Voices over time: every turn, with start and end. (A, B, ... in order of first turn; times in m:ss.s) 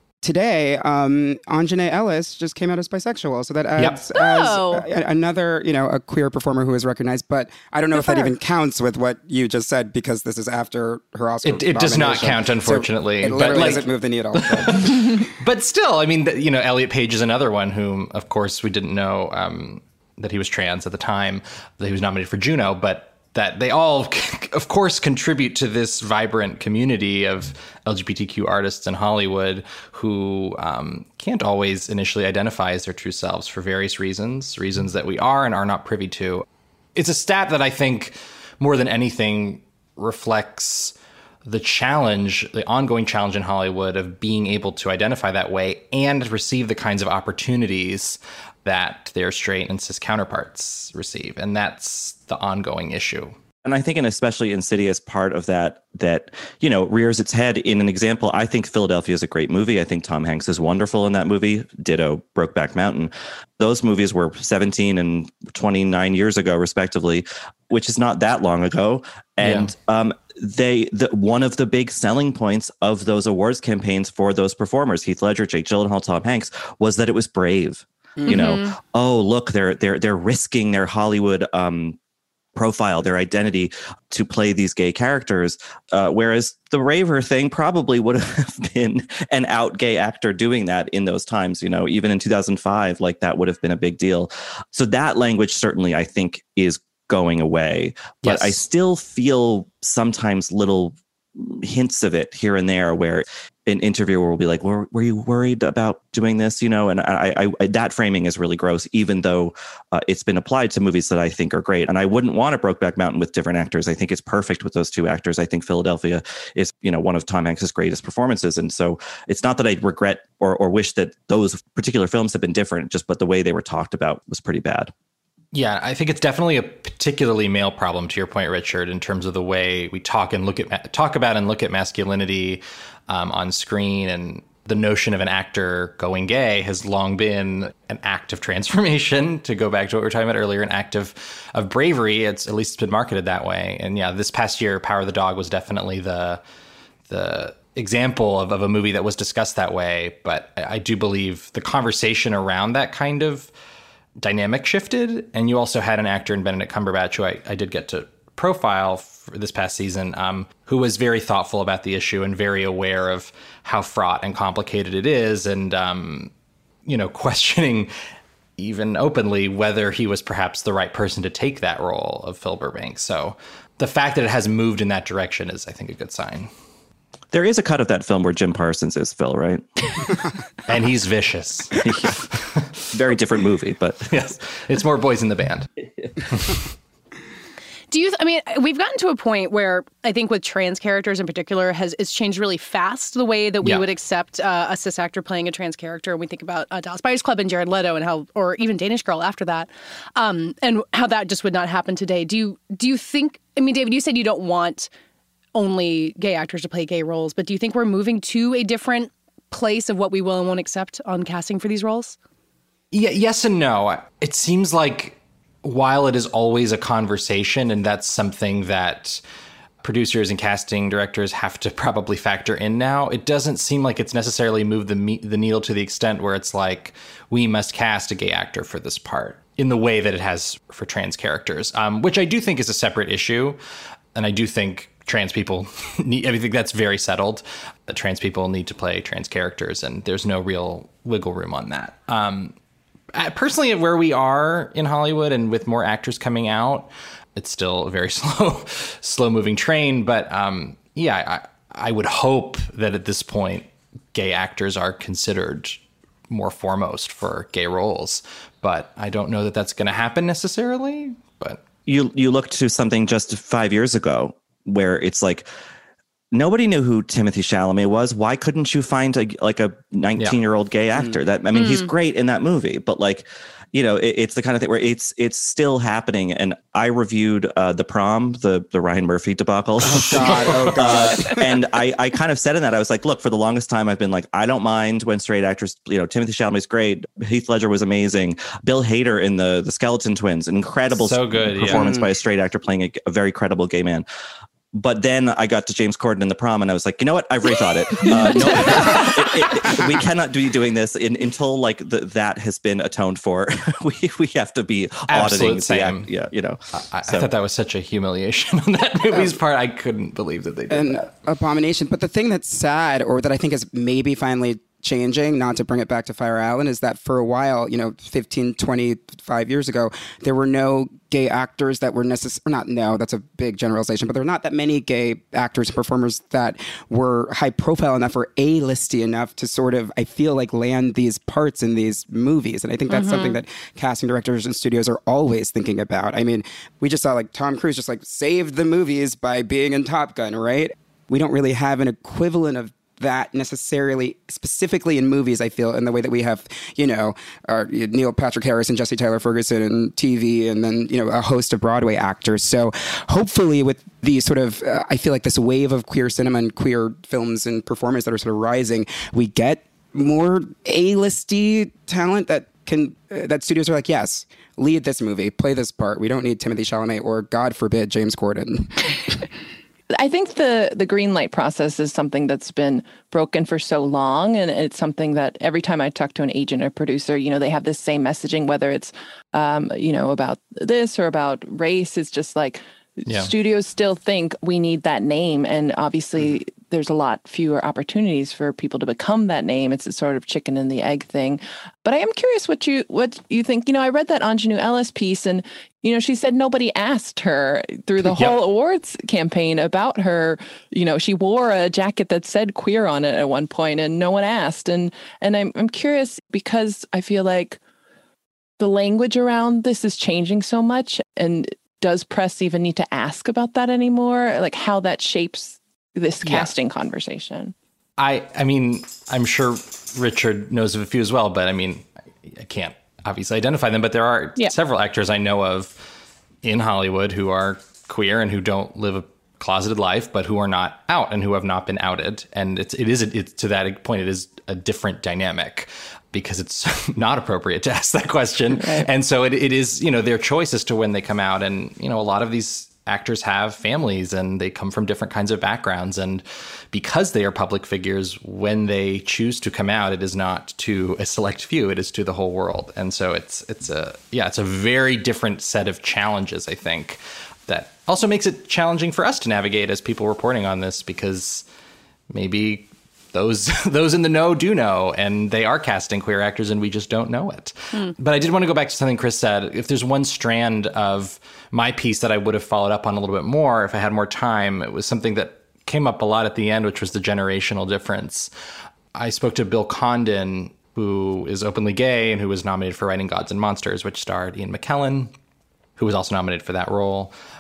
0:00.2-0:15.2 A
0:04.2-0:04.9 B
0:07.9-0:08.3 B
0:11.4-0:53.4 C
0:53.6-1:22.0 D
1:09.4-1:09.7 C
1:18.3-1:18.8 B
1:22.6-2:04.9 D
1:38.2-1:38.6 C
2:05.5-2:26.4 C
2:27.1-2:33.5 C
2:34.2-2:46.3 C
2:46.9-2:47.9 C
2:48.6-2:56.5 C
2:57.3-2:59.6 D
3:00.7-3:01.8 C
3:01.8-3:02.2 D
3:02.3-3:02.8 C
3:02.9-3:04.0 D
3:04.1-3:05.7 C
3:06.3-3:06.6 C
3:07.9-3:24.9 B
3:25.6-3:32.2 B
3:32.9-3:39.2 C
3:39.8-3:53.6 C
3:54.2-4:02.5 C
4:03.2-4:21.6 C
4:21.9-4:25.5 D
4:26.3-4:54.0 D
4:31.5-4:31.9 B
4:39.8-4:41.6 A
4:40.1-4:40.9 C
4:51.0-4:51.8 C
4:51.7-4:52.1 A
4:54.7-5:07.3 D
5:05.1-5:06.1 C
5:06.7-5:11.1 C
5:10.7-6:09.2 A
5:32.9-5:33.4 B
6:09.9-6:47.6 E
6:48.6-6:57.5 E
6:56.2-6:56.5 C
6:58.0-7:05.8 C
7:06.4-7:41.4 C
7:42.1-7:58.3 C
7:58.9-8:05.1 C
8:05.8-8:07.1 C